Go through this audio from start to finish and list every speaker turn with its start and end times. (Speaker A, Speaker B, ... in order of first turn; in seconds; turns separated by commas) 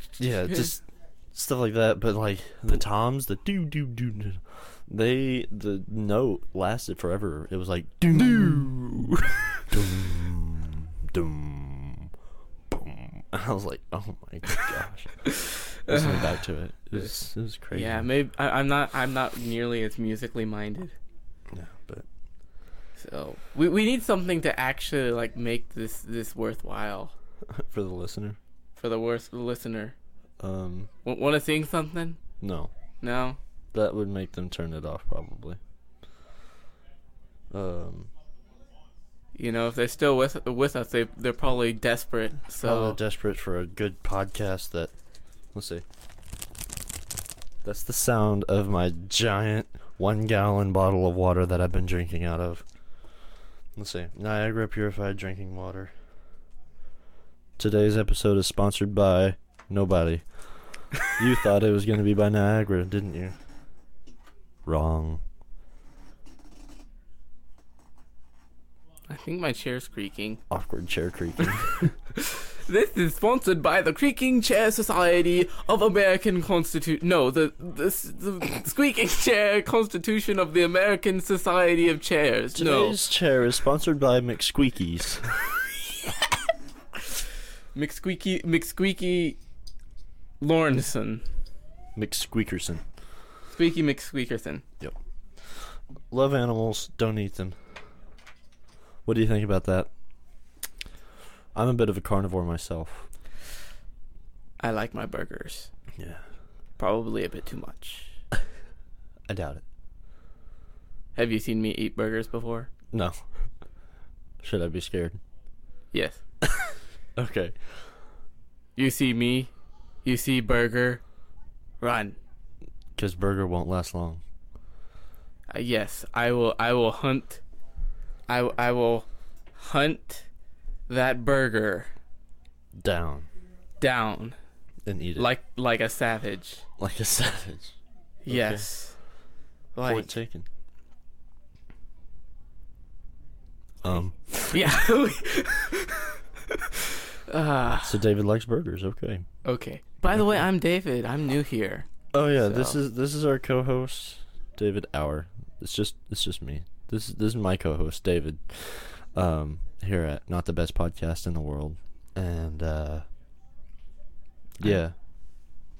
Speaker A: 0.2-8.8, Speaker B: 8.1-9.3, Speaker A: 9.6-12.1, Speaker A: 12.7-15.3, Speaker B: 15.3-16.4, Speaker A: 15.9-18.1, Speaker B: 17.7-20.9, Speaker A: 21.5-22.0, Speaker B: 23.0-27.1, Speaker A: 27.5-28.4, Speaker B: 28.8-29.9, Speaker A: 30.4-30.9, Speaker B: 31.0-32.2, Speaker A: 32.4-32.7, Speaker B: 33.0-33.4, Speaker A: 33.7-35.6, Speaker A: 37.5-38.1, Speaker B: 39.3-43.0, Speaker A: 42.6-44.9, Speaker A: 45.5-45.8, Speaker A: 47.6-52.6, Speaker A: 53.8-55.9, Speaker A: 57.6-63.4, Speaker A: 64.7-65.2, Speaker B: 69.1-70.4, Speaker A: 70.5-71.9, Speaker B: 72.1-83.0, Speaker A: 82.5-85.4, Speaker B: 85.9-86.2, Speaker B: 87.7-89.4, Speaker B: 90.4-91.2, Speaker A: 92.0-92.8, Speaker B: 93.5-94.6, Speaker A: 94.8-97.7, Speaker A: 99.0-99.9, Speaker A: 101.5-103.1, Speaker B: 104.6-105.7, Speaker A: 106.0-106.2, Speaker B: 106.8-108.1, Speaker A: 109.3-109.6, Speaker B: 111.2-112.7, Speaker A: 112.9-113.2, Speaker A: 114.4-115.2, Speaker B: 115.9-116.2, Speaker A: 116.7-117.6, Speaker B: 118.8-119.5, Speaker B: 120.0-121.0, Speaker B: 121.8-122.2, Speaker A: 123.0-124.2, Speaker B: 125.5-127.4, Speaker B: 128.3-130.3, Speaker B: 130.9-131.9, Speaker A: 132.8-133.3, Speaker B: 133.8-134.4, Speaker A: 134.8-135.3, Speaker B: 135.2-136.6, Speaker A: 136.8-137.8, Speaker B: 138.2-139.0, Speaker A: 138.3-138.7, Speaker B: 139.7-140.1, Speaker A: 139.8-140.4, Speaker A: 143.8-144.7, Speaker B: 144.5-148.0, Speaker A: 147.8-149.2, Speaker B: 149.4-151.9, Speaker A: 152.1-163.1, Speaker B: 152.4-152.8, Speaker A: 164.6-164.9